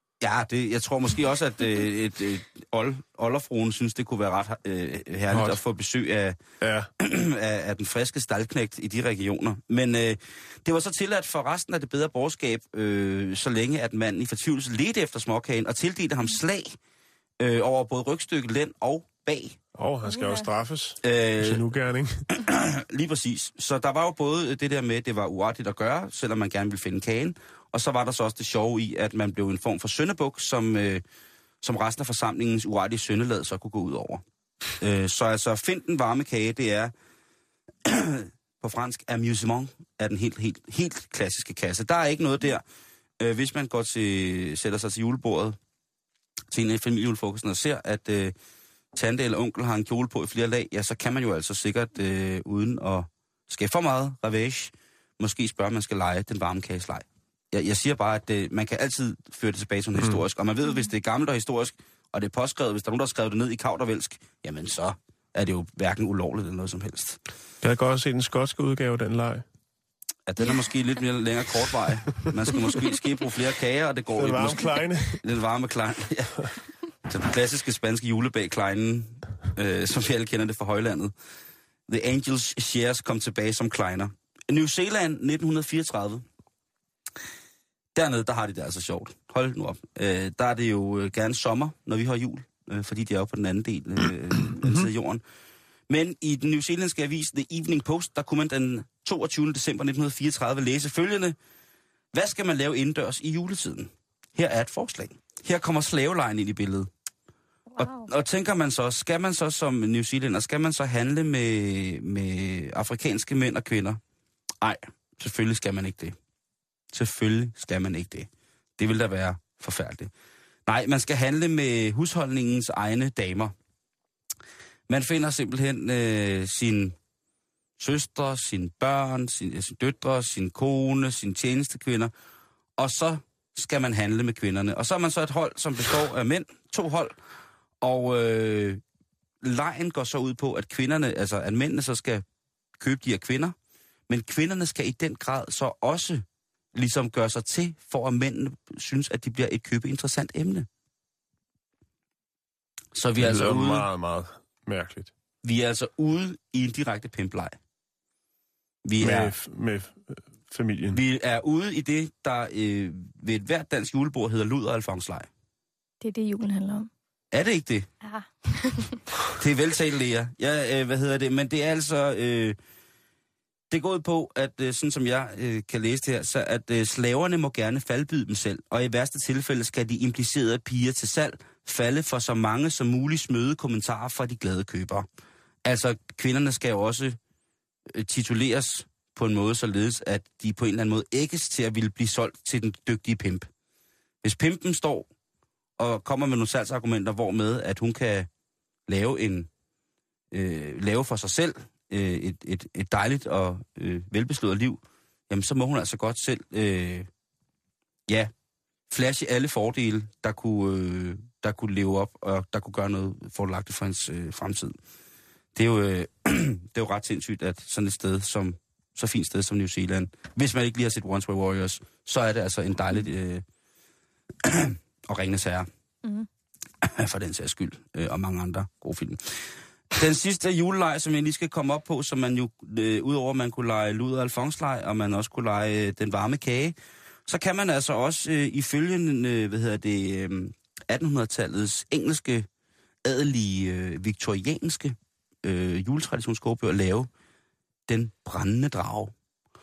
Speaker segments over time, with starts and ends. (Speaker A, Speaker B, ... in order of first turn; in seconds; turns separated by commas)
Speaker A: 0.2-6.4, Speaker B: 5.3-5.6, Speaker B: 6.6-6.9, Speaker A: 7.0-16.8, Speaker A: 17.4-19.6, Speaker B: 19.8-22.3, Speaker C: 20.1-20.5, Speaker A: 21.0-21.7, Speaker A: 22.4-31.0, Speaker A: 31.6-34.2, Speaker A: 34.8-36.9, Speaker A: 37.8-42.6, Speaker A: 43.2-45.6, Speaker A: 46.5-48.4, Speaker A: 48.9-67.2, Speaker B: 67.6-69.5, Speaker A: 70.3-76.5, Speaker B: 74.2-75.2, Speaker A: 77.1-81.1, Speaker A: 81.9-86.2, Speaker A: 88.0-95.2, Speaker A: 95.9-101.4, Speaker A: 102.1-106.9, Speaker C: 107.7-108.1, Speaker A: 107.8-114.0, Speaker A: 114.6-116.2, Speaker A: 116.9-120.1, Speaker A: 120.7-123.5, Speaker A: 124.9-127.0, Speaker A: 127.8-132.1, Speaker A: 132.8-137.2, Speaker A: 137.8-138.8, Speaker A: 139.4-142.2, Speaker A: 142.8-143.6, Speaker A: 144.1-150.7, Speaker A: 152.9-153.9, Speaker B: 153.2-155.1, Speaker A: 155.4-157.6, Speaker A: 158.8-159.3, Speaker B: 159.0-161.0, Speaker A: 160.9-165.3, Speaker C: 166.0-166.9, Speaker A: 167.3-167.9, Speaker C: 168.0-169.0, Speaker A: 169.3-172.6, Speaker A: 173.7-185.1, Speaker A: 185.7-187.2, Speaker A: 187.9-193.5, Speaker A: 194.2-195.1, Speaker A: 195.8-198.3, Speaker A: 198.9-199.5, Speaker A: 200.3-207.1, Speaker A: 208.9-214.8, Speaker A: 215.6-223.4, Speaker A: 224.4-225.7, Speaker A: 226.8-242.5, Speaker A: 243.0-247.1, Speaker A: 247.9-249.1